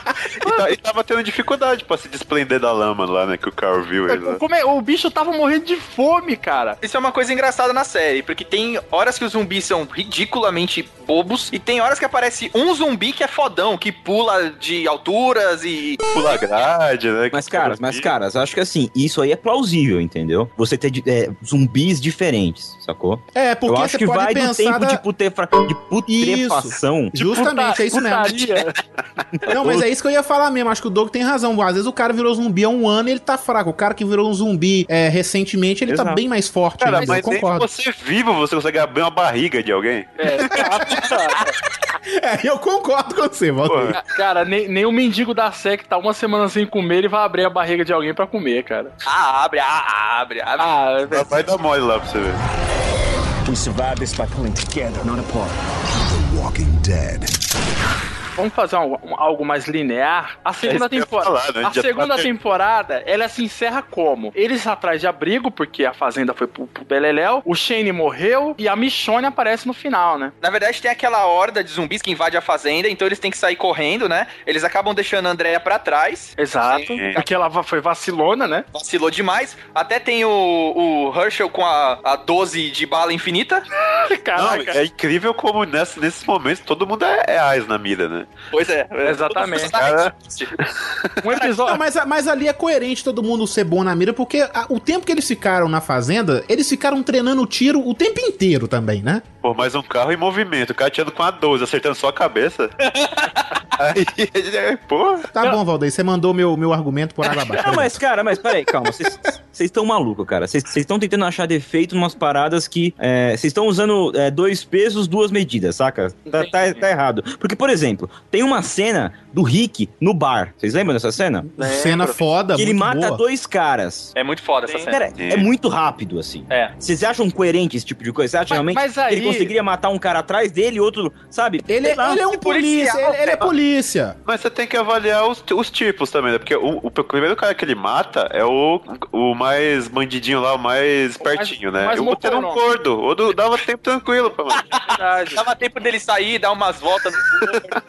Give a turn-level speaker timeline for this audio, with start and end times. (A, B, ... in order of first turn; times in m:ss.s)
0:00.4-0:04.4 A
0:04.1-0:06.8 B
0:06.8-0:16.0 C
0:16.1-0:18.1 A
0:17.3-0:27.2 D
0:23.3-0:25.0 E
0:26.1-0:28.6 E
0:27.2-0:28.8 B
0:29.5-0:37.7 E
0:29.5-0:29.8 D
0:35.9-0:36.2 D
0:36.8-0:41.0 A
0:37.0-0:37.2 B
0:40.2-0:41.5 B
0:40.6-0:40.9 E
0:42.0-0:44.0 E
0:43.6-0:44.0 A
0:43.9-0:48.9 B
0:49.0-0:50.7 C
0:50.6-0:51.4 B
0:51.1-0:52.4 A
0:53.4-0:57.3 F
0:58.4-1:10.3 B
1:00.6-1:02.3 A
1:10.4-1:17.2 C
1:16.4-1:18.6 B
1:18.7-1:23.6 C
1:24.0-1:24.8 B
1:24.3-1:28.4 A
1:28.5-1:30.5 C
1:29.0-1:29.8 B
1:29.8-1:31.1 A
1:31.2-1:31.8 B
1:31.5-1:39.2 E
1:39.4-1:42.7 A
1:42.9-1:43.4 C
1:43.7-1:45.3 A
1:45.3-1:48.0 E
1:47.4-2:01.5 D
1:56.3-1:56.8 B
2:01.6-2:03.2 E
2:01.6-2:02.2 B
2:02.6-2:04.1 D
2:04.1-2:05.0 C
2:04.6-2:04.9 B
2:04.8-2:11.7 D
2:05.2-2:05.5 A
2:08.5-2:09.5 B
2:11.7-2:14.2 E
2:12.2-2:13.4 C
2:14.2-2:24.8 A
2:21.2-2:22.6 B
2:24.9-2:25.4 B
2:25.3-2:27.8 C